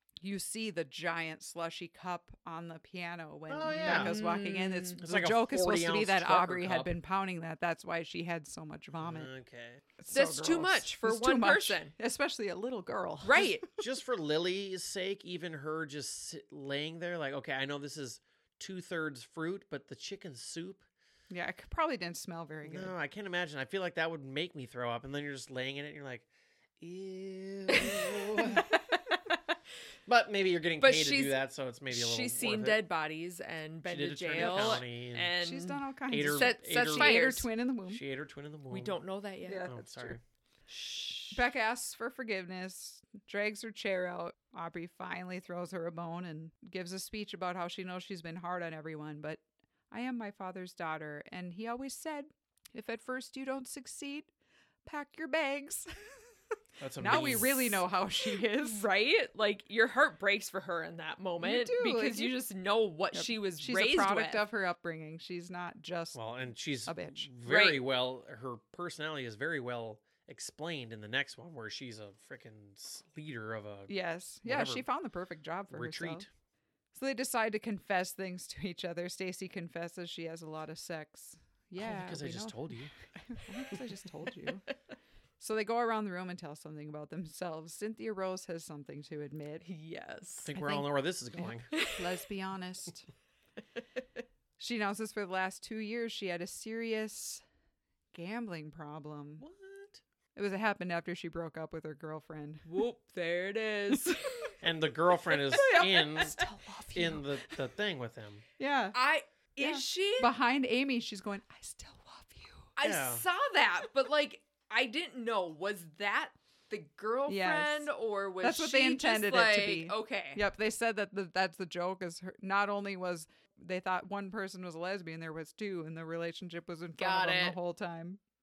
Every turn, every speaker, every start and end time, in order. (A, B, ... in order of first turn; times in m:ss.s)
0:00.2-0:09.3 A
0:03.5-0:04.2 B
0:03.8-0:05.0 C
0:05.0-0:06.9 B
0:09.0-0:09.8 B
0:10.0-0:13.6 A
0:10.1-0:11.9 C
0:13.2-0:13.6 C
0:13.7-0:20.8 B
0:21.3-0:22.9 A
0:22.6-0:26.2 B
0:26.8-0:28.7 B
0:27.7-0:29.4 C
0:30.1-0:32.8 B
0:30.8-0:31.4 C
0:31.9-0:37.5 C
0:33.8-0:35.3 B
0:34.3-0:34.8 A
0:35.4-0:38.0 A
0:36.1-0:37.2 B
0:37.9-0:39.0 B
0:38.7-0:39.7 C
0:39.4-0:40.2 A
0:39.7-0:40.2 B
0:40.7-0:41.4 C
0:41.3-0:54.3 A
0:54.8-0:55.9 A
0:56.8-0:57.8 B
0:57.0-0:58.8 A
0:57.1-0:57.4 C
0:58.6-1:04.4 C
1:01.4-1:02.3 A
1:03.1-1:06.2 A
1:06.1-1:13.9 B
1:06.8-1:07.3 A
1:07.4-1:07.8 C
1:13.9-1:16.2 A
1:14.4-1:14.8 B
1:15.7-1:16.3 B
1:16.9-1:24.6 A
1:21.8-1:22.9 B
1:25.4-1:29.6 A
1:29.6-1:30.5 C
1:30.4-1:31.7 B
1:30.5-1:33.1 A
1:34.6-1:37.4 A
1:38.1-1:39.4 A
1:39.4-1:40.0 B
1:40.3-1:42.7 A
1:42.7-1:44.5 C
1:44.6-1:46.4 B
1:45.5-1:47.6 A
1:46.9-1:48.4 B
1:48.6-1:49.0 A
1:48.9-1:50.3 C
1:49.6-1:52.7 A
1:52.8-2:00.4 C
1:52.8-1:53.2 B
1:57.3-1:57.9 A
1:58.4-2:08.2 A
2:07.0-2:07.6 C